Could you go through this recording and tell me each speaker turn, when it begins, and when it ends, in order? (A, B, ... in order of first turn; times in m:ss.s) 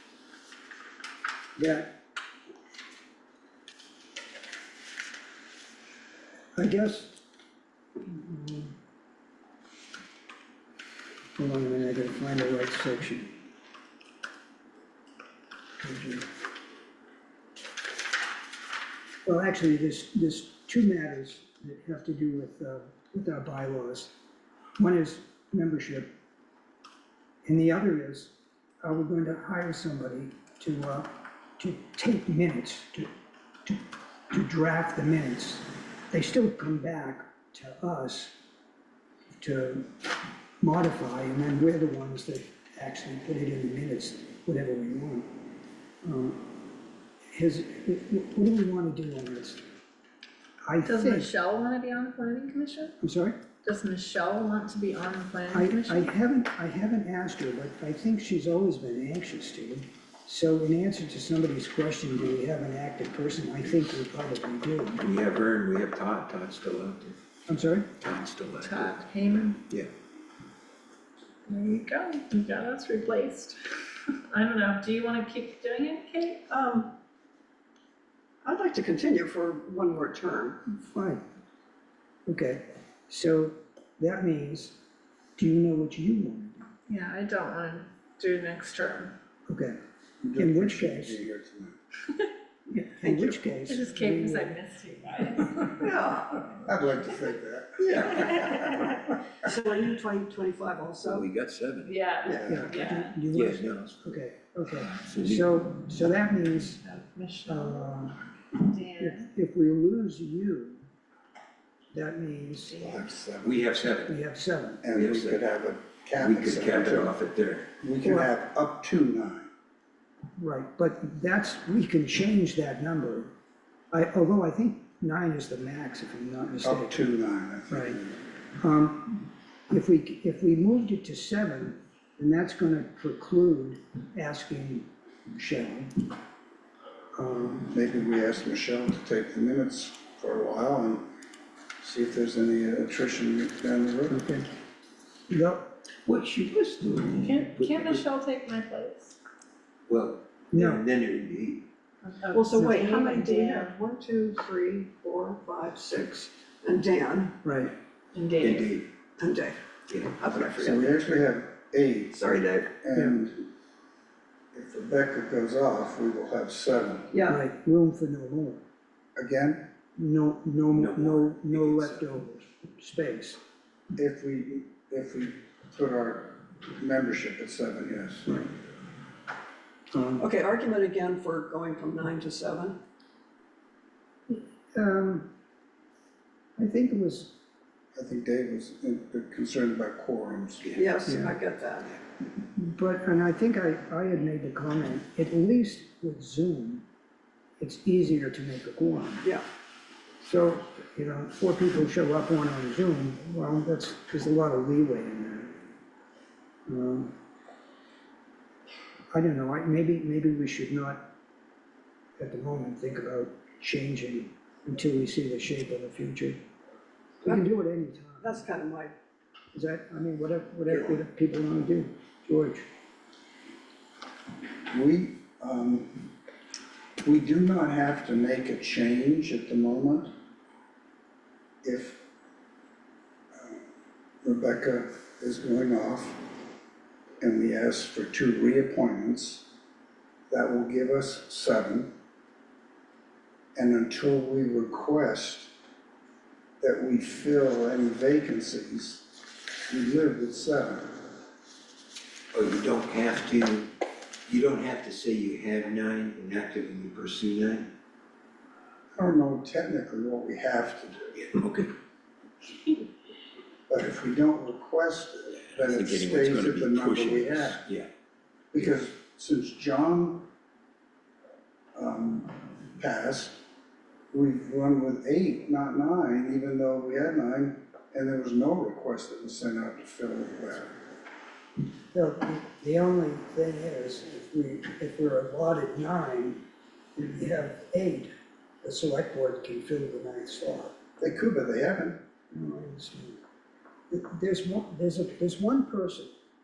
0:01.6-0:01.9 A
0:06.5-0:07.2 A
0:08.0-0:08.7 A
0:11.4-0:13.3 A
0:15.8-0:16.3 A
0:19.2-0:24.1 A
0:24.8-0:26.1 A
0:27.4-0:33.1 A
0:33.6-0:38.4 A
0:39.3-0:39.9 A
0:40.6-0:45.4 A
0:46.0-0:46.6 A
0:47.3-0:49.6 A
0:50.7-0:51.3 A
0:50.8-0:53.0 B
0:53.0-0:53.4 A
0:53.6-0:56.1 B
0:55.5-1:05.0 A
1:05.0-1:07.2 C
1:07.5-1:07.9 A
1:08.0-1:09.0 C
1:08.6-1:09.6 B
1:11.5-1:16.5 B
1:16.5-1:16.9 D
1:18.4-1:20.6 D
1:20.6-1:21.2 A
1:22.2-1:24.8 A
1:25.4-1:26.7 A
1:26.9-1:29.1 B
1:29.5-1:29.8 A
1:30.2-1:31.8 E
1:30.4-1:31.2 A
1:32.7-1:35.3 A
1:33.0-1:33.4 D
1:33.7-1:35.9 B
1:35.8-1:36.5 D
1:36.6-1:38.8 E
1:37.8-1:38.8 D
1:39.4-1:41.3 D
1:41.0-1:42.6 C
1:41.8-1:43.2 B
1:42.2-1:42.8 D
1:42.4-1:46.8 A
1:43.3-1:44.2 C
1:44.9-1:45.5 C
1:46.8-1:47.9 B
1:47.5-1:48.2 A
1:48.5-1:49.2 B
1:48.9-1:50.8 A
1:51.9-1:52.9 A
1:52.7-1:53.7 E
1:53.4-1:54.2 C
1:54.0-1:54.8 A
1:54.8-1:57.2 E
1:54.9-1:55.4 C
1:56.2-1:57.7 C
1:57.8-1:59.5 E
1:58.0-1:58.3 A
2:00.4-2:03.3 A
2:03.9-2:07.1 A
2:06.6-2:08.2 E
2:07.7-2:08.0 A
2:08.6-2:15.9 A
2:17.1-2:17.7 A
2:17.6-2:21.1 E
2:21.8-2:24.2 E
2:24.1-2:24.5 A
2:25.3-2:27.3 A
2:27.2-2:29.2 B
2:27.5-2:28.0 C
2:29.9-2:31.6 C
2:30.5-2:30.8 A
2:32.0-2:33.7 B
2:32.3-2:37.4 D
2:37.4-2:37.7 A
2:38.1-2:38.8 B
2:38.4-2:38.9 C
2:39.2-2:41.2 D
2:39.9-2:40.6 C
2:40.6-2:43.5 E
2:42.1-2:42.7 D
2:44.5-2:47.1 E
2:47.1-2:47.4 D
2:47.3-2:48.6 A
2:49.2-2:49.7 E
2:50.0-2:53.4 A
2:50.7-2:52.0 C
2:53.9-2:58.4 E
2:59.9-3:00.2 A
3:00.2-3:02.8 D
3:04.3-3:05.3 A
3:06.6-3:07.4 A
3:07.9-3:10.7 E
3:10.6-3:11.0 C
3:10.8-3:11.9 D
3:11.0-3:11.4 A
3:12.4-3:16.8 A
3:17.6-3:19.3 A
3:20.2-3:25.6 A
3:26.7-3:27.1 A
3:29.1-3:31.1 A
3:32.2-3:36.4 A
3:37.2-3:38.4 A
3:38.2-3:38.9 D
3:39.5-3:42.7 A
3:40.7-3:41.0 D
3:44.7-3:46.1 E
3:47.0-3:50.1 E
3:51.6-3:52.0 E
3:53.3-3:53.6 E
3:54.2-3:56.2 E
3:57.2-3:59.5 E
4:00.3-4:01.9 E
4:03.6-4:05.5 E
4:06.6-4:11.1 E
4:12.3-4:13.7 C
4:14.3-4:17.7 C
4:19.0-4:21.1 E
4:21.2-4:21.7 C
4:23.7-4:27.6 E
4:25.6-4:27.9 C
4:28.5-4:30.3 E
4:31.7-4:33.4 E
4:34.1-4:40.7 E
4:41.9-4:46.4 A
4:47.0-4:48.1 A
4:48.6-4:50.8 A
4:51.0-4:52.0 E
4:52.3-4:53.2 A
4:53.9-4:56.1 A